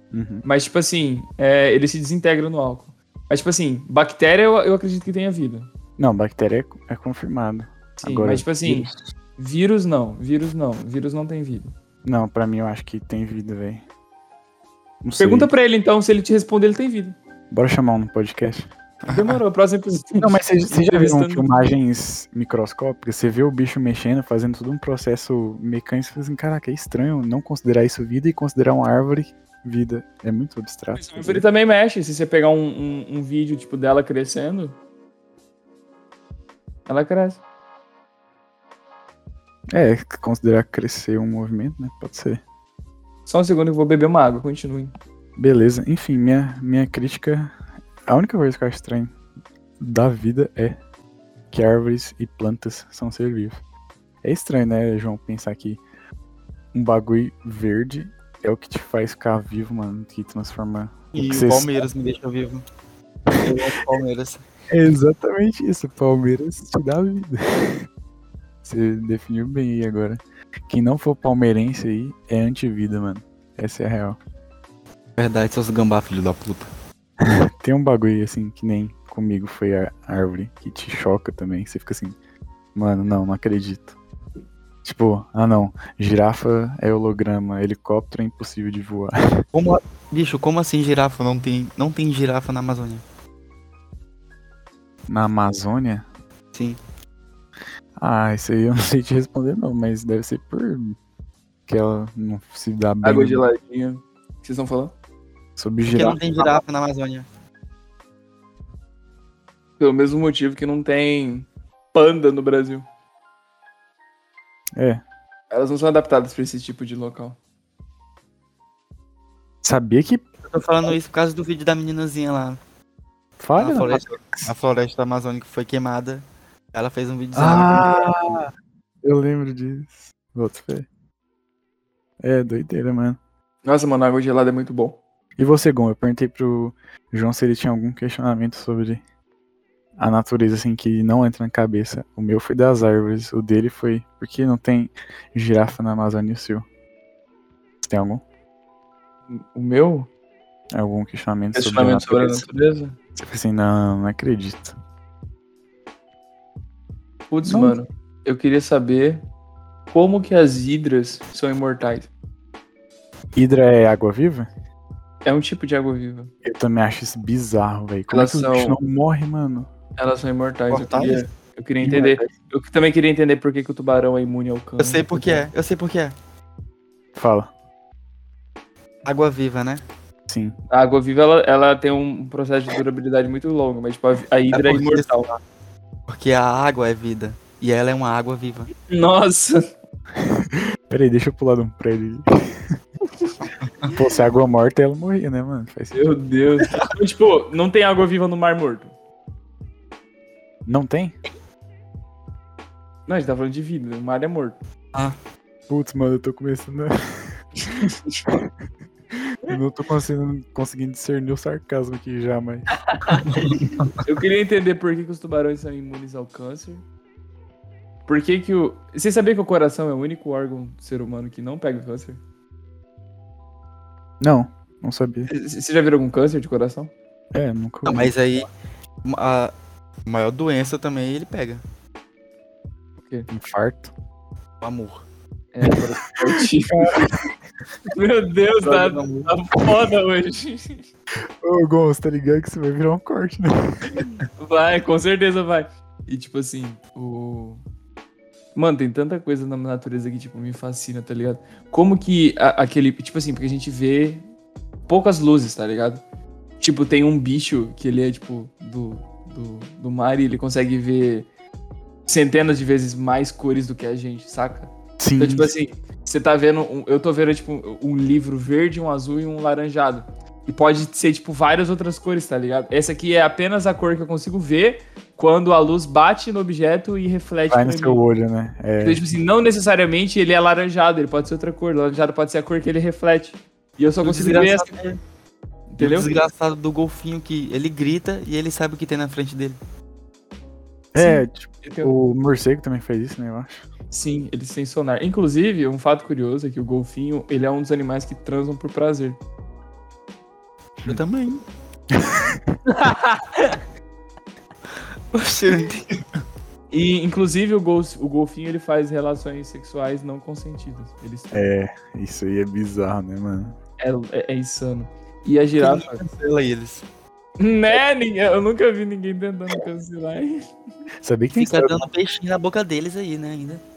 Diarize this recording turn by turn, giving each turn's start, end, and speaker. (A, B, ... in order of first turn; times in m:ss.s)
0:00.1-0:00.4 A
0:00.4-0:05.7 B
0:06.0-0:09.0 A
0:08.0-0:11.7 B
0:12.0-0:13.8 A
0:15.0-0:15.5 A
0:15.2-0:17.2 B
0:17.5-0:18.7 A
0:19.1-0:21.6 B
0:20.2-0:31.4 A
0:30.9-0:34.8 B
0:36.9-0:37.4 B
0:39.7-0:42.4 A
0:43.2-0:44.9 B
0:45.4-0:47.5 A
0:48.1-0:49.1 A
0:49.8-0:50.8 A
0:51.5-0:53.6 A
0:54.2-0:55.8 A
0:56.7-1:01.8 A
1:01.1-1:02.6 C
1:03.3-1:03.6 A
1:03.4-1:04.4 C
1:04.7-1:07.9 A
1:08.6-1:14.2 A
1:15.2-1:16.7 C
1:17.2-1:22.2 A
1:22.7-1:24.0 A
1:24.8-1:29.4 A
1:29.5-1:33.0 C
1:35.1-1:36.0 A
1:38.0-1:41.0 A
1:41.7-1:43.4 A
1:43.0-1:44.9 B
1:45.6-1:46.2 A
1:45.9-1:47.3 C
1:49.8-1:52.8 B
1:54.8-1:55.0 A
1:55.5-1:57.4 B
1:59.6-2:00.2 A
2:00.4-2:02.6 C
2:03.4-2:04.5 A
2:03.6-2:08.1 C
2:07.3-2:08.5 A
2:09.0-2:10.9 A
2:12.2-2:13.2 A
2:13.6-2:15.0 B
2:15.4-2:19.0 A
2:20.0-2:26.6 A
2:27.8-2:28.2 A
2:29.3-2:30.1 B
2:30.7-2:32.4 A
2:31.5-2:32.9 B
2:33.2-2:34.8 A
2:37.3-2:39.2 B
2:37.4-2:37.8 A
2:39.9-2:42.1 B
2:43.3-2:44.5 A
2:45.2-2:46.3 B
2:46.4-2:49.7 A
2:48.1-2:48.8 B
2:50.0-2:55.5 B
2:50.7-2:51.2 C
2:51.8-2:52.3 A
2:54.8-2:56.1 C
2:57.2-2:57.5 A
2:59.0-2:59.8 C
3:00.3-3:00.5 A
3:00.7-3:05.3 B
3:04.5-3:05.4 C
3:06.1-3:08.7 C
3:08.8-3:09.6 B
3:10.2-3:12.7 A
3:13.9-3:16.1 A
3:15.9-3:18.9 B
3:20.6-3:21.1 A
3:23.1-3:24.6 B
3:25.7-3:27.4 A
3:27.8-3:28.2 B
3:29.4-3:32.7 A
3:32.8-3:33.4 B
3:33.3-3:33.9 C
3:34.0-3:36.8 B
3:38.1-3:42.2 B
3:44.2-3:45.3 A
3:45.3-3:46.9 B
3:47.3-3:48.1 A
3:47.8-3:48.5 C
3:49.0-3:49.5 C
3:50.0-3:51.6 C
3:53.0-3:53.3 B
3:53.3-3:53.9 A
3:54.6-3:55.0 C
3:55.5-3:57.0 B
3:56.7-3:57.3 A
3:57.9-4:00.8 B
3:58.6-3:59.3 C
4:01.4-4:04.0 A
4:04.4-4:07.6 B
4:08.5-4:14.2 B
4:14.9-4:16.0 B
4:16.6-4:21.3 B
4:22.0-4:38.0 B
4:25.0-4:25.5 A
4:37.5-4:39.0 A
4:38.8-4:44.7 B
4:44.0-4:45.0 C
4:45.7-4:46.1 B
4:45.8-4:49.6 C
4:50.9-4:51.9 B
4:50.9-4:53.7 A
4:53.9-4:59.2 B
5:00.8-5:01.4 C
5:01.9-5:02.5 A
5:02.7-5:03.6 B
5:05.1-5:06.0 C
5:06.7-5:11.5 B
5:11.3-5:13.6 A
5:13.8-5:16.0 B
5:15.6-5:16.8 C
5:17.4-5:20.4 B
5:21.0-5:21.9 A
5:21.3-5:23.6 C